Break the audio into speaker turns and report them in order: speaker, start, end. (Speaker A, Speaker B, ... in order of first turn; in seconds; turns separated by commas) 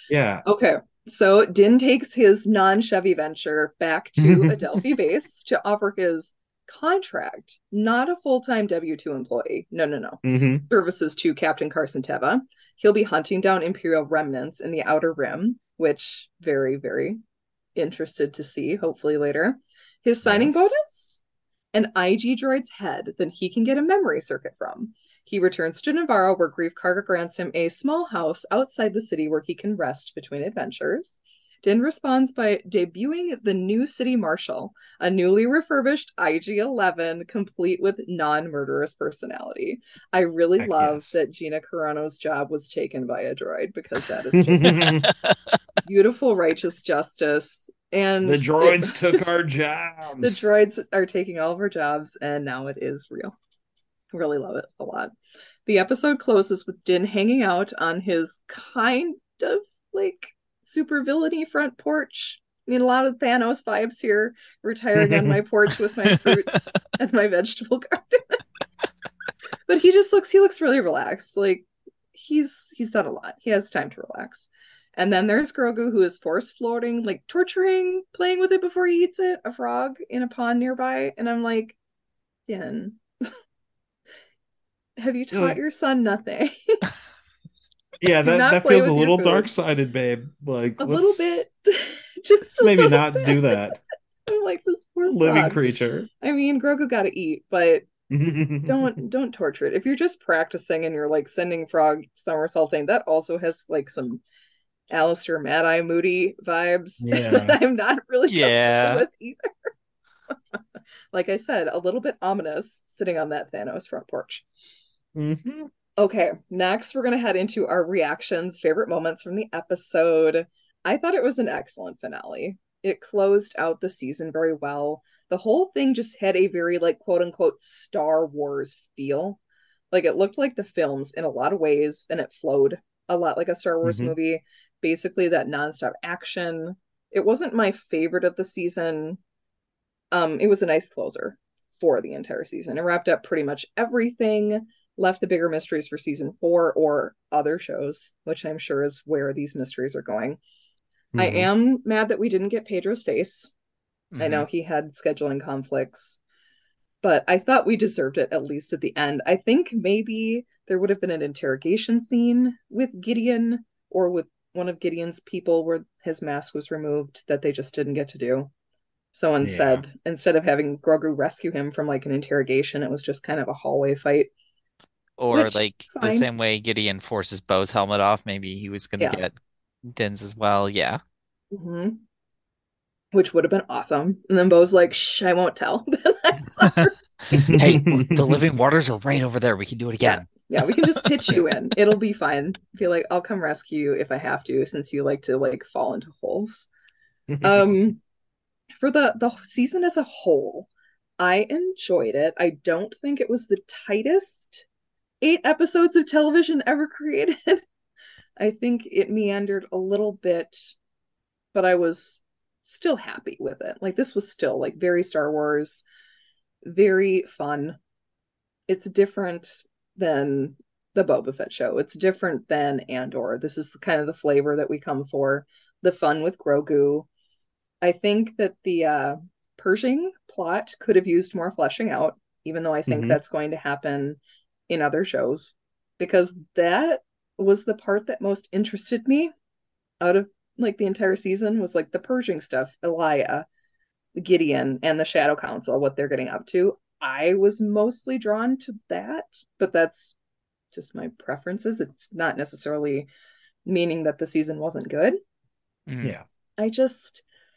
Speaker A: 0.1-0.4, Speaker B: 0.4-17.2, Speaker A: 4.2-4.6, Speaker A: 10.2-10.7, Speaker B: 17.8-21.2, Speaker A: 20.2-20.8, Speaker B: 21.7-45.0, Speaker A: 40.6-41.2, Speaker A: 44.4-45.1, Speaker B: 45.8-49.2, Speaker A: 48.2-50.5, Speaker B: 50.2-53.3, Speaker B: 54.1-55.1, Speaker B: 55.6-68.4, Speaker A: 65.0-65.4, Speaker B: 69.7-81.8, Speaker B: 82.5-83.3, Speaker B: 85.0-86.8, Speaker A: 85.3-85.6, Speaker A: 88.0-91.5, Speaker B: 88.2-89.5, Speaker B: 90.8-93.3, Speaker A: 92.6-93.8, Speaker B: 94.3-95.6, Speaker A: 95.0-96.1, Speaker B: 96.2-97.8, Speaker A: 98.1-98.9, Speaker B: 98.7-104.2, Speaker B: 104.9-109.7, Speaker A: 107.0-107.6, Speaker C: 108.3-109.0, Speaker B: 111.1-114.5, Speaker A: 115.1-115.7, Speaker B: 116.0-129.4, Speaker B: 129.9-139.2, Speaker A: 133.8-134.1, Speaker B: 140.1-150.4, Speaker A: 151.1-151.5, Speaker B: 151.2-153.5, Speaker C: 154.1-154.4, Speaker B: 154.2-156.2, Speaker B: 157.0-168.5, Speaker B: 169.1-174.3, Speaker A: 169.4-169.8, Speaker C: 175.2-179.3, Speaker B: 175.3-176.3, Speaker C: 179.9-181.0, Speaker B: 181.5-182.0, Speaker B: 183.1-186.9, Speaker A: 187.3-188.4, Speaker C: 187.5-190.2, Speaker B: 190.0-196.7, Speaker C: 191.0-191.4, Speaker A: 197.3-197.6, Speaker B: 197.4-198.0, Speaker B: 198.8-204.6, Speaker B: 205.2-207.6, Speaker B: 208.4-210.7, Speaker B: 211.5-215.8, Speaker B: 216.6-217.8, Speaker B: 218.7-227.1, Speaker B: 227.8-239.3, Speaker A: 232.9-233.2, Speaker B: 240.0-243.4, Speaker B: 244.2-250.2, Speaker B: 250.7-253.1, Speaker B: 253.7-255.2, Speaker C: 255.9-256.1, Speaker B: 256.6-257.2